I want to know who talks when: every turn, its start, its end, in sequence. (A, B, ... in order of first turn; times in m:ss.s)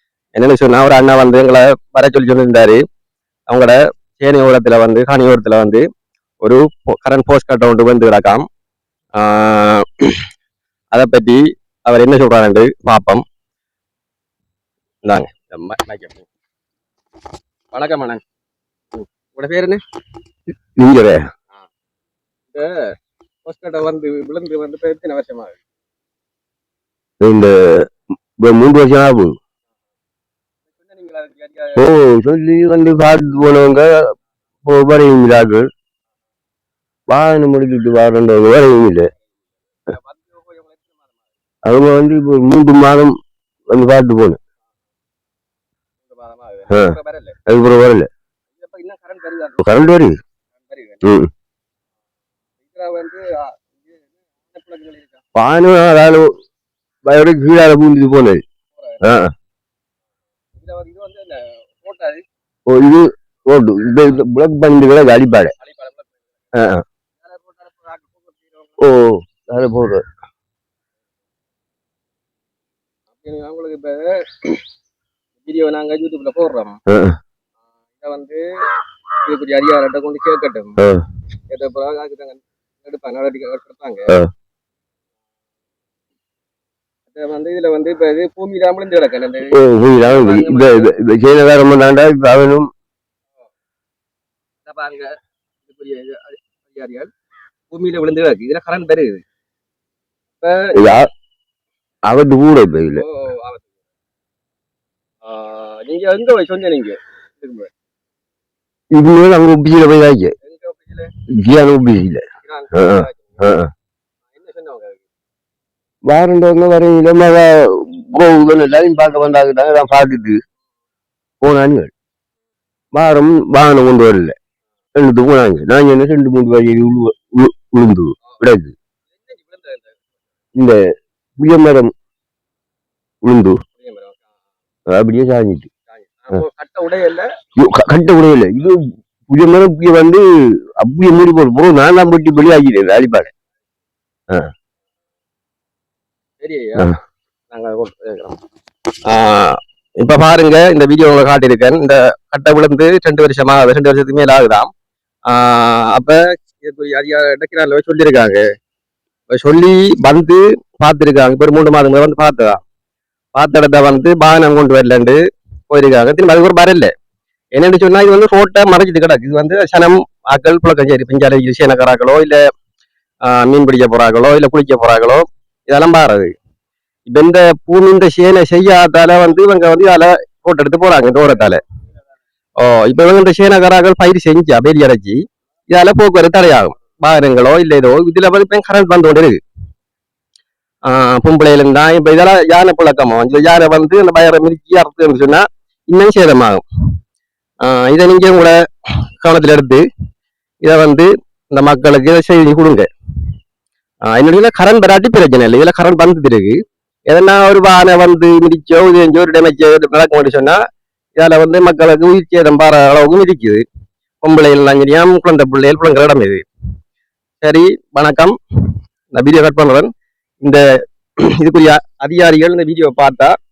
0:00.4-0:02.8 A
0:03.5-0:05.8 A
0:06.4-0:08.5 A
0:09.2-0:10.2 A
0:10.9-0:13.2 A
0:15.0-0:16.3 A
0:17.7-0:18.2 A
0:19.0-0:19.8 A
0:20.8-0:21.2 B
0:23.4-0:25.6 A
0:27.2-0:27.9 B
0:28.4-0:29.4 B
0:30.8-0:31.8 A
0:31.8-0:33.9 B
0:34.6-0:35.7 B
0:37.1-0:39.1 B
0:39.8-0:41.2 A
0:41.6-0:43.2 B
0:43.7-0:44.4 B
0:46.0-0:47.4 A
0:46.7-0:47.0 B
0:47.5-0:48.1 B
0:48.6-0:49.7 A
0:49.6-0:50.2 B
0:50.6-0:51.0 A
0:51.0-0:51.3 B
0:52.6-0:55.2 A
0:55.4-0:56.3 B
0:57.1-0:58.4 B
0:58.8-0:59.0 A
0:59.0-0:59.3 B
1:00.6-1:02.2 A
1:02.7-1:05.6 B
1:05.6-1:06.6 A
1:06.6-1:06.8 B
1:07.2-1:08.8 A
1:08.8-1:10.0 B
1:13.2-1:14.6 A
1:15.4-1:16.8 A
1:16.9-1:17.2 B
1:18.0-1:18.4 A
1:19.2-1:20.8 A
1:20.8-1:21.0 B
1:21.5-1:24.1 A
1:27.1-1:30.9 A
1:29.5-1:32.7 B
1:34.7-1:37.1 A
1:37.7-1:39.2 A
1:40.4-1:41.0 A
1:40.7-1:41.1 B
1:42.1-1:43.0 B
1:42.9-1:43.7 A
1:45.2-1:47.7 A
1:48.9-1:50.3 B
1:50.4-1:51.1 A
1:51.4-1:53.7 B
1:52.4-1:53.5 A
1:54.3-1:55.0 A
1:56.1-2:00.4 B
2:01.4-2:01.9 B
2:02.9-2:04.4 B
2:05.0-2:08.7 B
2:09.1-2:10.0 A
2:11.4-2:11.9 B
2:13.2-2:13.6 B
2:13.8-2:14.3 A
2:14.9-2:15.7 B
2:15.9-2:17.3 A
2:17.6-2:18.8 B
2:19.3-2:20.2 B
2:20.8-2:23.3 B
2:26.4-2:26.9 A
2:27.5-2:28.4 A
2:29.1-2:34.7 A
2:35.3-2:38.4 A
2:39.3-2:42.6 A
2:43.4-2:45.2 A
2:45.7-2:46.9 A
2:47.6-2:52.4 A
2:53.2-2:56.3 A
2:57.1-3:01.6 A
3:02.6-3:09.4 A
3:10.9-3:16.6 A
3:17.6-3:18.6 A
3:19.2-3:19.8 A
3:20.6-3:22.9 A
3:24.1-3:26.6 A
3:27.1-3:30.6 A
3:31.2-3:33.6 A
3:34.2-3:36.5 A
3:37.4-3:38.4 A
3:39.1-3:39.9 A
3:41.4-3:43.4 A